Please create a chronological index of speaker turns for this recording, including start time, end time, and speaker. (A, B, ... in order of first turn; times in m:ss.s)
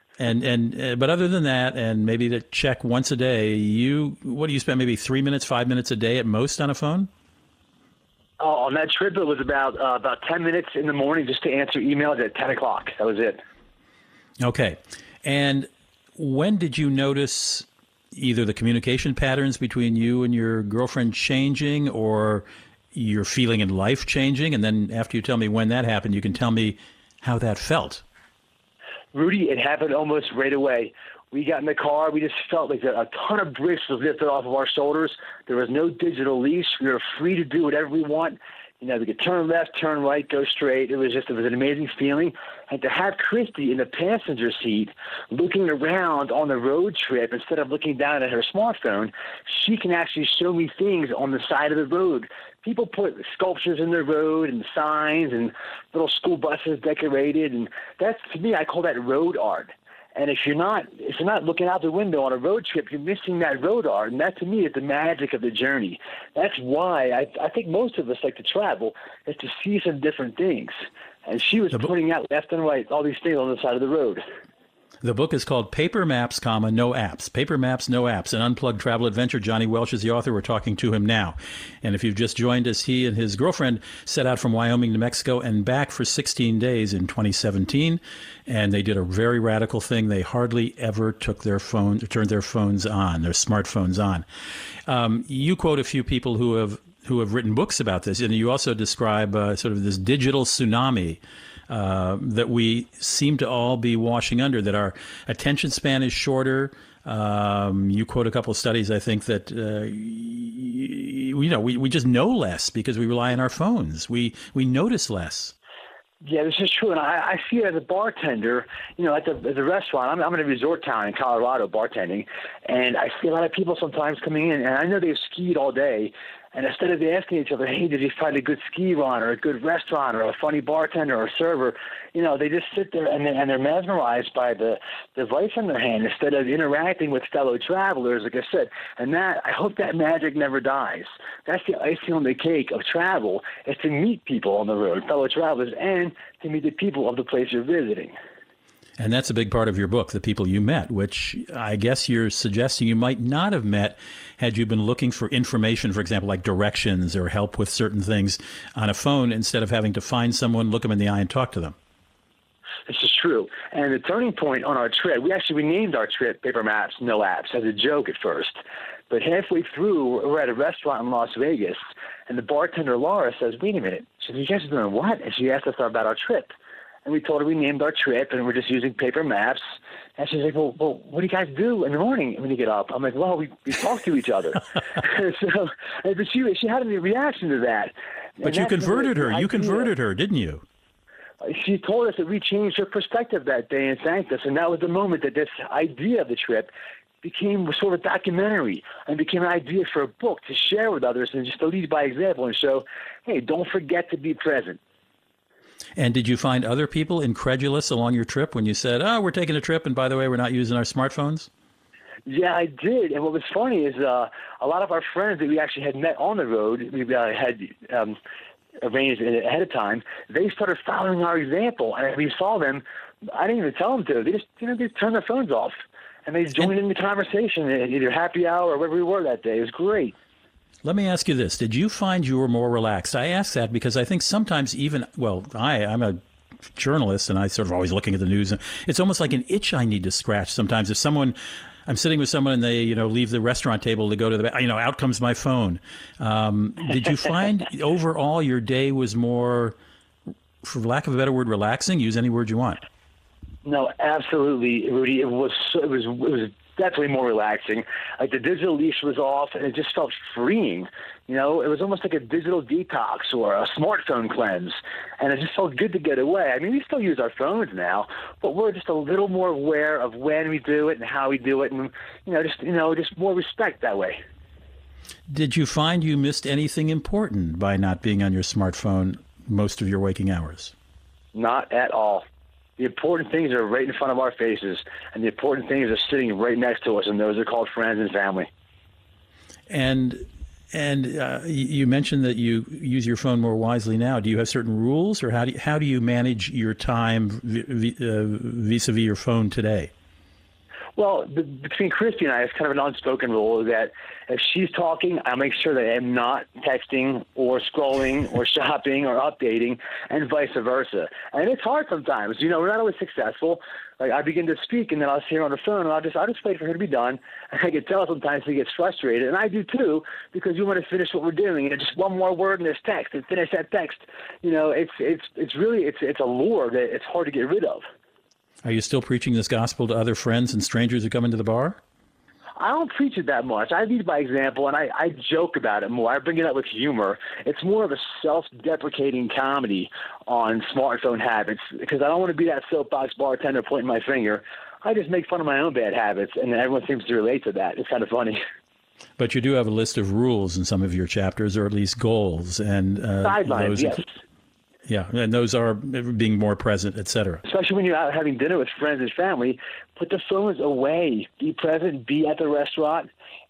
0:00.2-0:07.1 A
0:08.4-0:13.4 B
0:14.4-0:28.0 A
0:29.1-1:10.7 B
1:11.2-1:14.2 B
1:15.0-1:34.2 A
1:34.9-1:55.5 A
1:56.2-2:28.2 B
2:29.0-2:41.7 A
2:42.9-2:48.6 B
2:49.1-2:56.5 B
2:57.0-2:59.6 B
3:00.2-3:09.9 B
3:08.4-3:10.6 A
3:11.4-3:16.7 B
3:17.2-3:24.8 B
3:26.0-3:31.5 A
3:32.2-3:38.2 B
3:38.8-3:50.1 B
3:50.8-3:56.2 A
3:56.7-4:09.8 A
4:10.6-4:12.8 A
4:13.6-4:34.2 B
4:35.3-4:40.7 A
4:41.3-4:42.2 B
4:42.8-4:48.5 B
4:49.7-4:59.9 A
5:01.0-5:27.8 B
5:28.6-5:31.8 A
5:32.6-5:48.4 B
5:49.2-5:54.0 A
5:53.2-5:54.1 B
5:54.9-5:57.4 A
5:57.4-6:03.1 B